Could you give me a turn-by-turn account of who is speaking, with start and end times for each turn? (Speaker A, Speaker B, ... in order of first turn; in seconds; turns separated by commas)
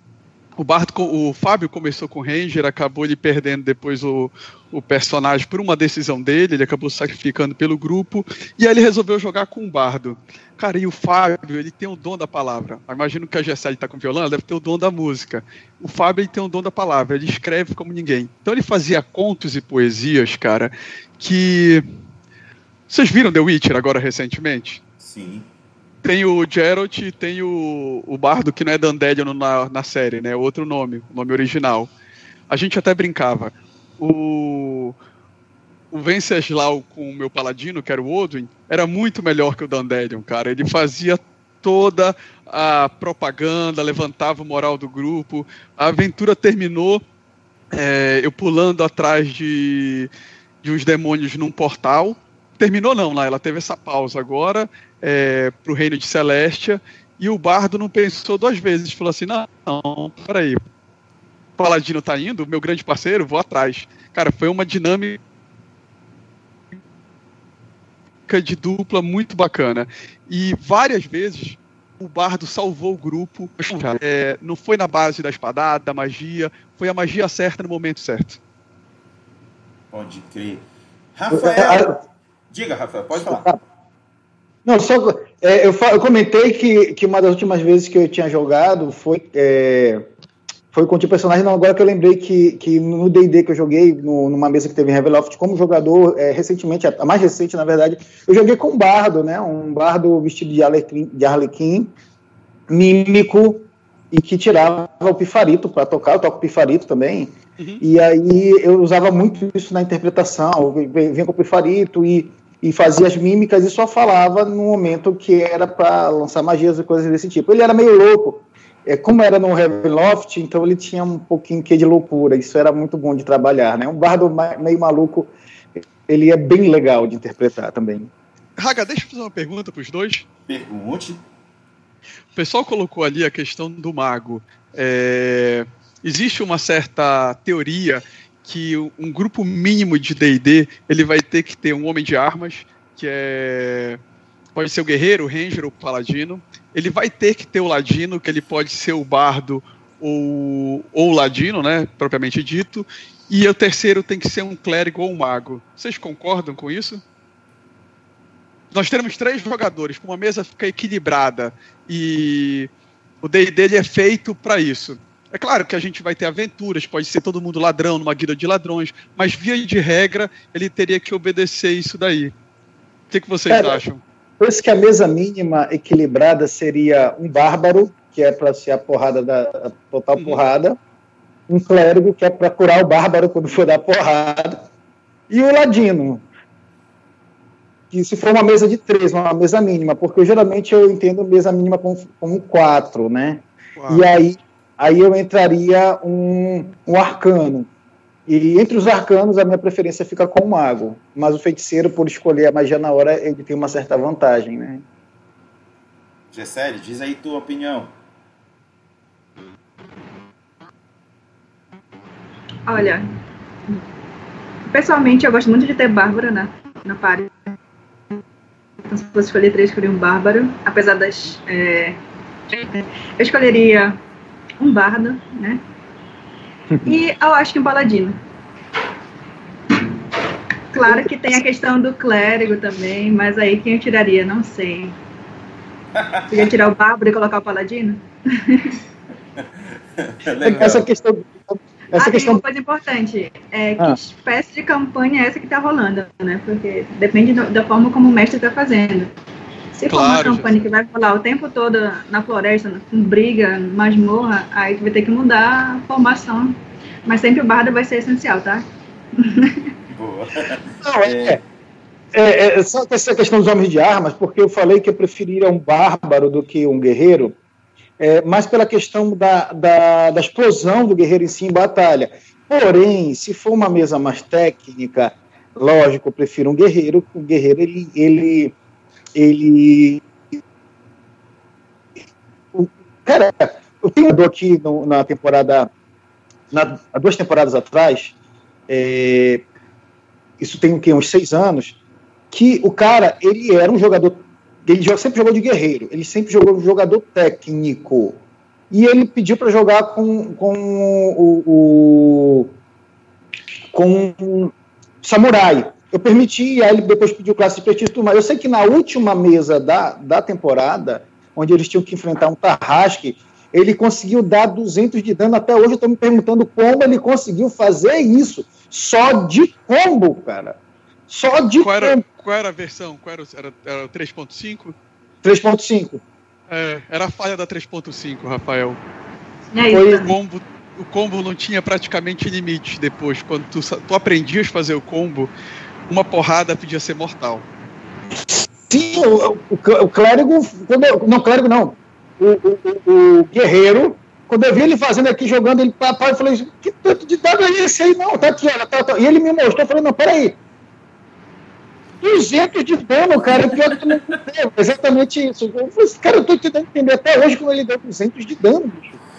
Speaker A: 0.6-21.8, Speaker A: 22.9-24.8, Speaker B: 25.0-25.5, Speaker A: 26.0-31.9, Speaker A: 32.5-35.0, Speaker A: 35.9-47.0, Speaker A: 47.7-50.1, Speaker A: 50.6-60.6, Speaker A: 61.6-65.2, Speaker A: 68.3-78.4, Speaker B: 79.9-80.6, Speaker B: 81.2-82.0, Speaker C: 81.3-82.0, Speaker B: 82.5-83.5, Speaker C: 83.2-83.6, Speaker C: 84.6-90.0, Speaker C: 90.7-101.9, Speaker C: 102.7-128.1, Speaker A: 128.6-130.2, Speaker B: 130.5-131.2, Speaker A: 132.3-144.0, Speaker A: 144.5-157.0, Speaker A: 158.7-162.7, Speaker A: 163.2-172.3, Speaker A: 173.1-174.0, Speaker C: 173.5-173.8, Speaker C: 174.4-180.8, Speaker C: 181.5-184.6, Speaker C: 185.3-186.2, Speaker C: 187.9-197.7, Speaker A: 193.8-194.1, Speaker C: 198.3-204.8, Speaker B: 206.3-207.9, Speaker D: 212.7-213.0, Speaker D: 214.7-217.5, Speaker D: 218.8-224.0, Speaker D: 224.6-225.6, Speaker C: 226.7-227.0, Speaker D: 226.8-228.2, Speaker D: 230.7-234.9, Speaker C: 230.7-231.4, Speaker B: 235.9-236.5, Speaker D: 236.3-238.8, Speaker B: 239.4-240.9, Speaker A: 240.4-240.7, Speaker C: 240.5-242.4, Speaker D: 241.9-249.1, Speaker D: 249.8-258.6, Speaker A: 249.9-250.5, Speaker D: 259.2-259.7, Speaker B: 259.9-261.4, Speaker C: 260.8-261.4, Speaker C: 262.1-267.3, Speaker C: 268.0-278.6, Speaker C: 279.1-280.0, Speaker C: 282.5-285.7, Speaker C: 286.5-288.1, Speaker C: 288.7-289.4, Speaker C: 290.4-291.8, Speaker C: 292.3-302.5, Speaker C: 303.7-322.0, Speaker A: 321.6-324.7, Speaker C: 325.2-326.0, Speaker A: 326.5-328.8, Speaker D: 329.5-330.1, Speaker C: 329.7-330.1, Speaker A: 329.9-335.3, Speaker A: 335.9-337.4, Speaker C: 338.2-350.4, Speaker C: 352.0-359.0